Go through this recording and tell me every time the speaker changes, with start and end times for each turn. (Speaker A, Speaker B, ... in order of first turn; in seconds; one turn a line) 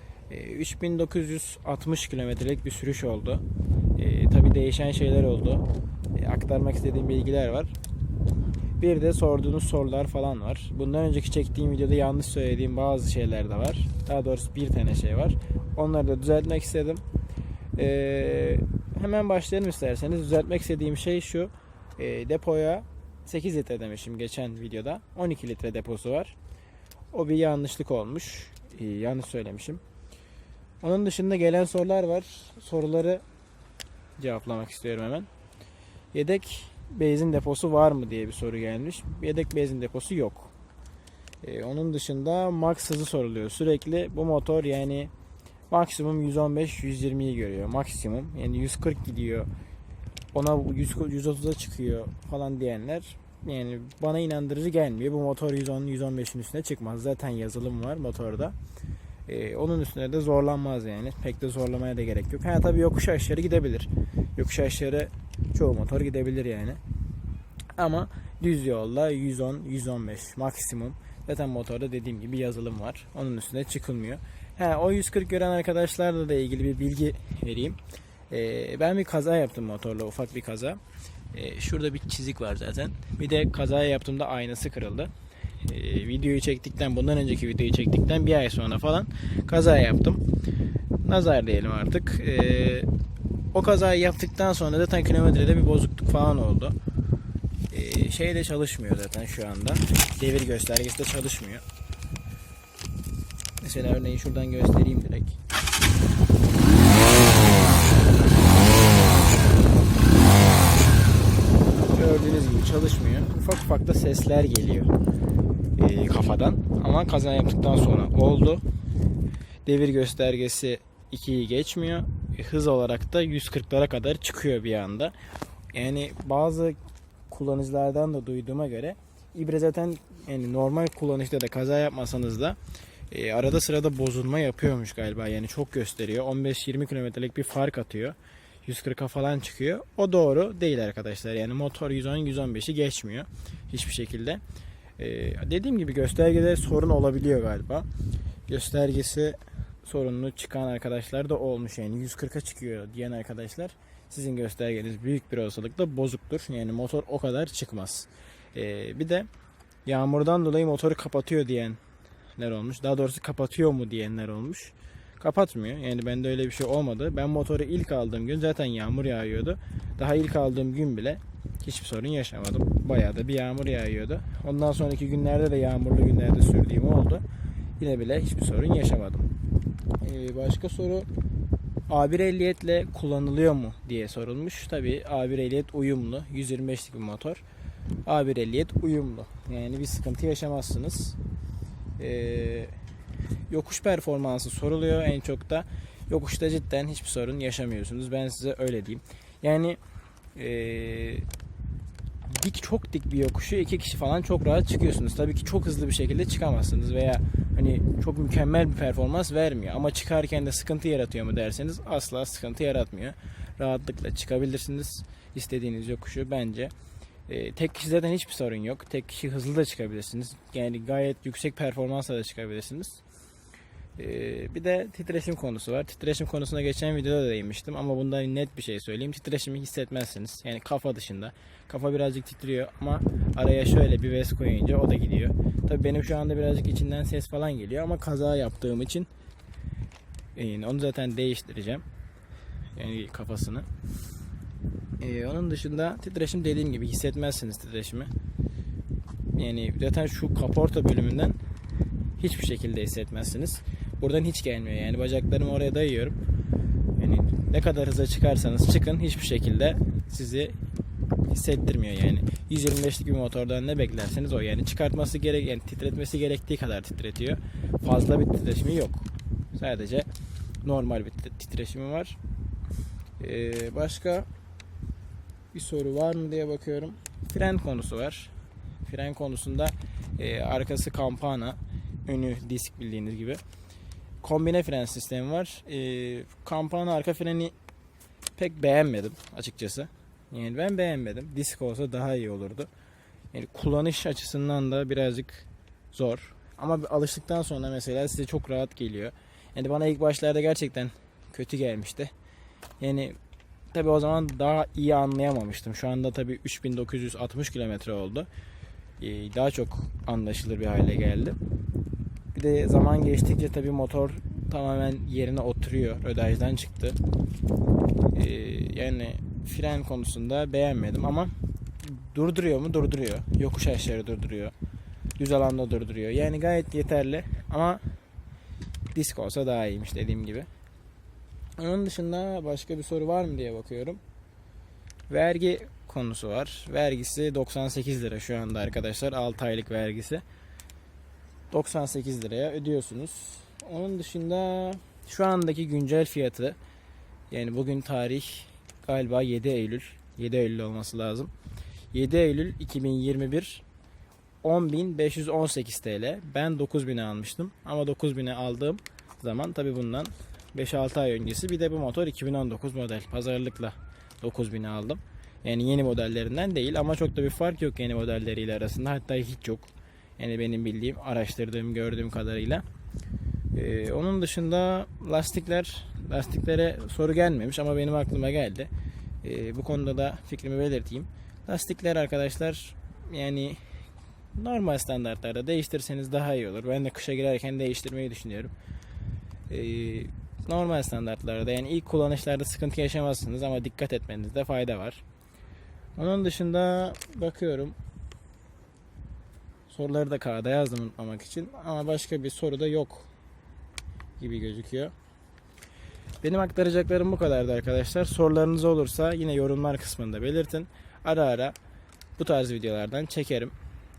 Speaker A: 0.3-3.4
Speaker A: 4.0-7.7
Speaker A: 8.8-17.0
Speaker A: 17.8-26.4
Speaker A: 27.1-29.8
Speaker A: 30.8-33.2
Speaker A: 34.2-35.3
Speaker A: 36.1-40.5
Speaker A: 41.4-45.1
Speaker A: 45.7-49.5
Speaker A: 50.3-58.5
Speaker A: 59.3-66.8
Speaker A: 67.8-77.8
Speaker A: 78.3-80.8
Speaker A: 81.3-85.1
Speaker A: 85.6-90.2
Speaker A: 91.0-92.9
Speaker A: 93.5-96.8
Speaker A: 97.7-101.6
Speaker A: 103.6-105.4
Speaker A: 111.9-114.9
Speaker A: 115.8-118.6
Speaker A: 119.6-125.1
Speaker A: 125.7-126.8
Speaker A: 127.3-132.6
Speaker A: 133.1-144.4
Speaker A: 145.0-147.9
Speaker A: 148.5-159.3
Speaker A: 159.8-161.8
Speaker A: 162.4-177.2
Speaker A: 177.8-179.3
Speaker A: 180.0-181.1
Speaker A: 181.9-187.4
Speaker A: 188.1-191.2
Speaker A: 192.0-192.8
Speaker A: 193.5-199.8
Speaker A: 200.3-201.2
Speaker A: 202.3-216.7
Speaker A: 217.3-223.0
Speaker A: 224.0-239.1
Speaker A: 240.3-241.8
Speaker A: 242.7-243.7
Speaker A: 245.0-248.1
Speaker A: 249.3-251.4
Speaker A: 252.2-256.2
Speaker A: 257.0-260.6
Speaker A: 261.3-270.1
Speaker A: 270.6-272.2
Speaker A: 273.2-274.3
Speaker A: 275.5-278.3
Speaker A: 278.8-283.4
Speaker A: 284.2-287.5
Speaker A: 288.4-292.7
Speaker A: 293.3-302.1
Speaker A: 302.8-303.2
Speaker A: 303.7-308.3
Speaker A: 309.0-311.4
Speaker A: 312.3-317.0
Speaker A: 318.1-324.5
Speaker A: 325.2-327.8
Speaker A: 328.9-330.5
Speaker A: 331.6-334.0
Speaker A: 335.1-340.2
Speaker A: 341.5-346.6
Speaker A: 347.3-351.3
Speaker A: 351.9-353.6
Speaker A: 354.4-372.6
Speaker A: 373.5-378.7
Speaker A: 379.2-383.6
Speaker A: 384.3-388.5
Speaker A: 389.5-395.0
Speaker A: 395.9-397.8
Speaker A: 399.7-403.1
Speaker A: 404.2-404.9
Speaker A: 406.2-411.6
Speaker A: 412.2-413.5